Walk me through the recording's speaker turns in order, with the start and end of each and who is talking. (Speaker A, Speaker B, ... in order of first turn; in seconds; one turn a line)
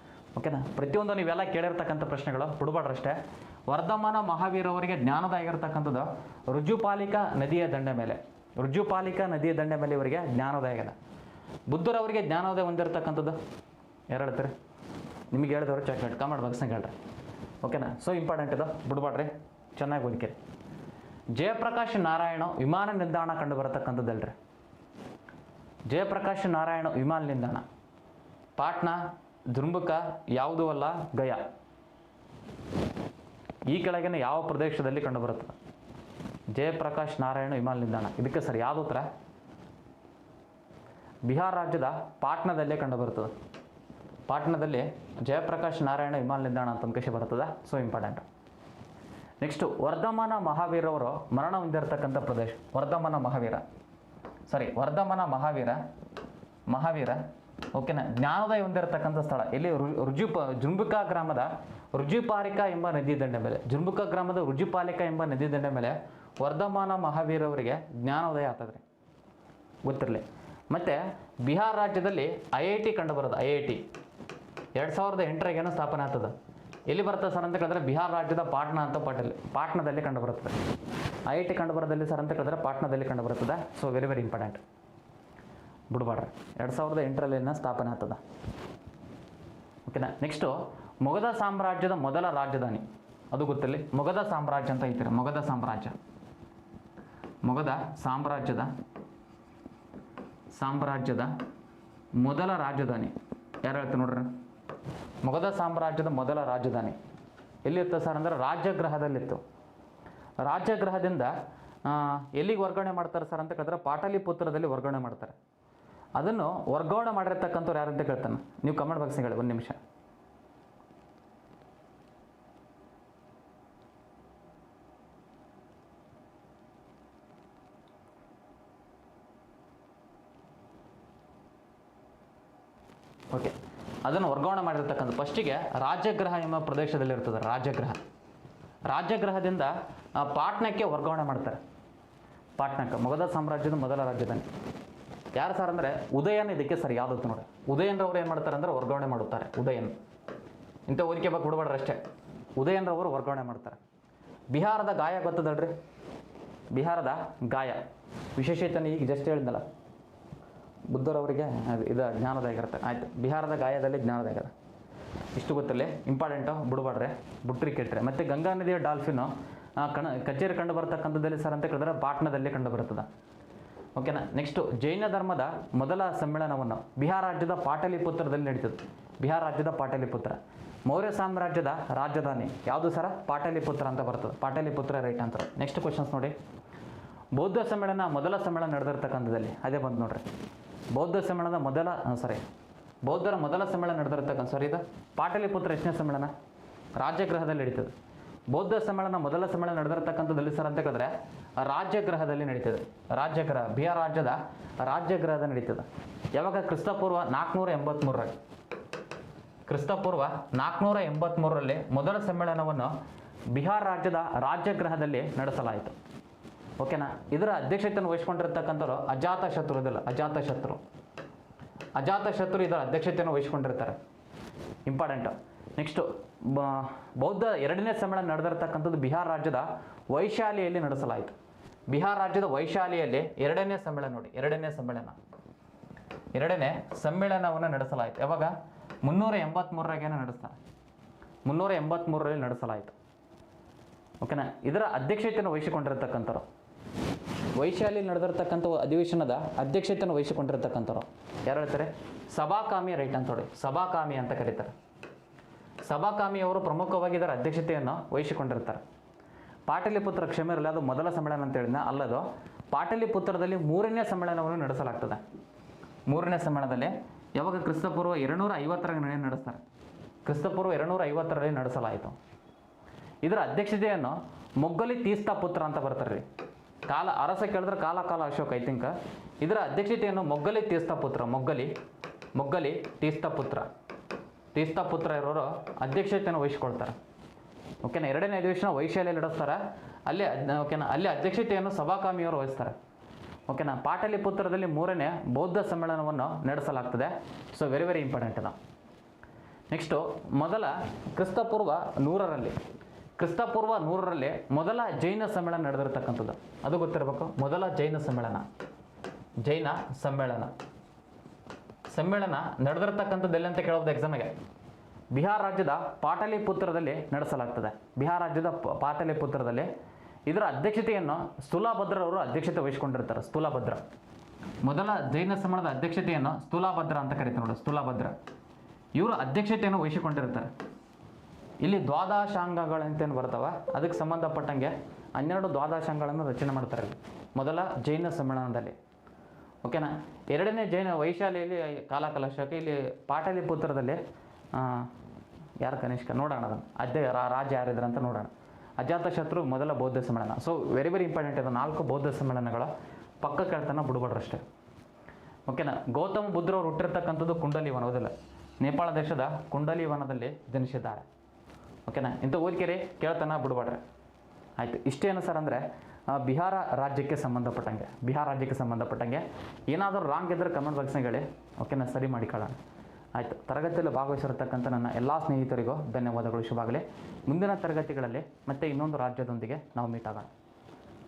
Speaker A: 0.3-10.9
Speaker A: 11.7-13.4
Speaker A: 14.1-14.5
Speaker A: 15.3-16.9
Speaker A: 17.6-20.4
Speaker A: 21.3-24.4
Speaker A: 25.9-27.6
Speaker A: 28.6-31.4
Speaker A: 33.7-35.5
Speaker A: 36.5-39.1
Speaker A: 41.2-43.3
Speaker A: 44.3-48.2
Speaker A: 49.4-53.6
Speaker A: 54.5-55.8
Speaker A: 56.7-57.2
Speaker A: 57.7-68.8
Speaker A: 69.8-73.9
Speaker A: 74.8-76.3
Speaker A: 76.9-80.5
Speaker A: 81.3-84.6
Speaker A: 85.9-88.2
Speaker A: 89.9-95.9
Speaker A: 97.4-98.7
Speaker A: 100.5-101.3
Speaker A: 102.2-104.3
Speaker A: 105.2-107.0
Speaker A: 107.6-109.4
Speaker A: 110.4-111.3
Speaker A: 111.8-115.3
Speaker A: 116.2-119.8
Speaker A: 133.3-138.0
Speaker A: 138.8-141.6
Speaker A: 142.6-144.5
Speaker A: 145.3-149.9
Speaker A: 150.9-152.0
Speaker A: 152.6-153.8
Speaker A: 154.5-155.8
Speaker A: 156.7-159.7
Speaker A: 160.9-164.5
Speaker A: 165.3-173.1
Speaker A: 173.9-186.3
Speaker A: 187.3-190.2
Speaker A: 190.9-192.4
Speaker A: 193.0-196.3
Speaker A: 196.9-197.9
Speaker A: 198.5-208.3
Speaker A: 209.7-212.9
Speaker A: 213.5-215.9
Speaker A: 216.8-220.8
Speaker A: 221.9-224.0
Speaker A: 224.8-231.3
Speaker A: 231.9-235.2
Speaker A: 236.3-240.6
Speaker A: 241.4-242.9
Speaker A: 244.2-246.4
Speaker A: 247.5-254.7
Speaker A: 255.8-258.8
Speaker A: 259.7-265.2
Speaker A: 266.1-269.6
Speaker A: 270.2-272.1
Speaker A: 273.2-276.2
Speaker A: 276.9-281.7
Speaker A: 282.4-283.7
Speaker A: 284.5-287.0
Speaker A: 287.8-292.8
Speaker A: 293.5-298.6
Speaker A: 299.7-302.6
Speaker A: 303.2-308.5
Speaker A: 309.4-310.5
Speaker A: 311.9-314.3
Speaker A: 315.1-319.7
Speaker A: 320.2-323.8
Speaker A: 324.6-328.1
Speaker A: 328.9-330.5
Speaker A: 331.6-338.8
Speaker A: 339.6-344.0
Speaker A: 344.5-344.9
Speaker A: 345.6-354.4
Speaker A: 355.5-361.1
Speaker A: 361.9-363.8
Speaker A: 364.6-372.6
Speaker A: 373.1-380.3